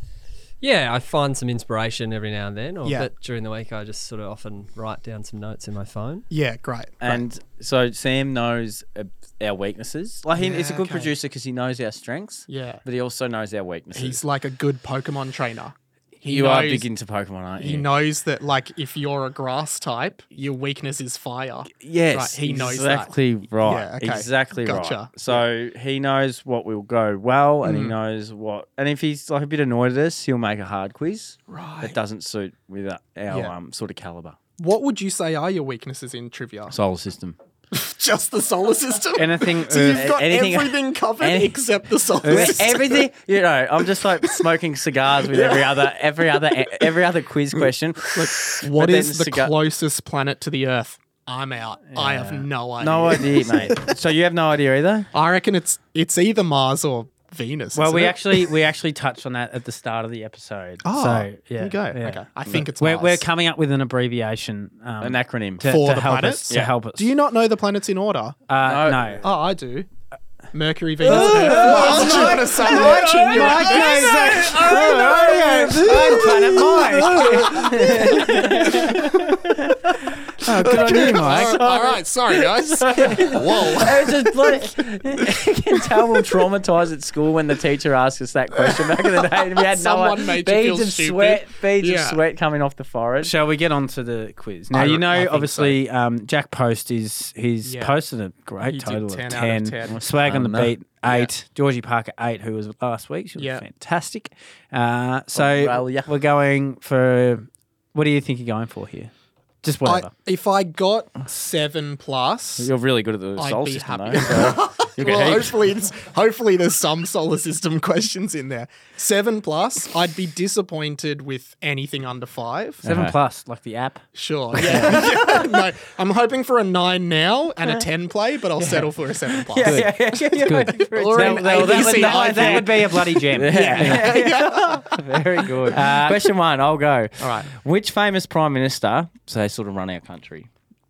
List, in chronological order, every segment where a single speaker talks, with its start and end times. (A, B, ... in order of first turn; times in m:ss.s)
0:00.6-0:06.2 A
0:06.3-0:07.2 B
0:07.0-0:14.2 C
0:10.3-0:11.1 B
0:12.5-0:12.8 B
0:13.9-0:16.9 B
0:16.2-0:17.9 C
0:17.6-0:25.4 B
0:21.7-0:34.4 C
0:27.6-0:27.9 B
0:31.5-0:32.0 B
0:34.6-0:36.7 B
0:36.7-0:37.4 C
0:37.7-0:43.1 B
0:39.1-0:40.1 D
0:39.7-0:41.6 C
0:42.2-0:42.8 D
0:42.2-0:49.5 C
0:45.2-0:45.9 B
0:48.1-0:53.9 B
0:51.9-0:52.5 D
0:52.8-0:55.1 C
0:55.1-0:58.5 B
0:57.7-1:07.1 D
1:00.8-1:03.2 B
1:05.0-1:05.8 C
1:05.6-1:08.4 B
1:08.5-1:09.2 D
1:08.6-1:09.2 C
1:09.2-1:09.9 B
1:10.5-1:19.6 B
1:11.0-1:20.1 C
1:11.0-1:21.6 D
1:20.5-1:24.7 B
1:20.7-1:33.3 C
1:28.6-1:32.2 B
1:33.2-1:49.1 D
1:34.7-1:35.8 B
1:37.6-1:38.0 B
1:38.6-1:40.0 B
1:39.9-1:40.7 C
1:41.0-1:41.3 B
1:43.4-1:43.6 B
1:45.3-1:46.1 C
1:49.6-1:50.1 D
1:49.8-1:52.7 B
1:52.6-1:55.6 C
1:53.4-2:02.8 B
2:02.8-2:03.2 C
2:02.8-2:05.2 D
2:04.1-2:15.2 B
2:04.6-2:05.5 C
2:09.4-2:20.5 C
2:09.6-2:10.8 A
2:11.1-2:14.1 D
2:15.7-2:16.3 D
2:17.2-2:17.5 B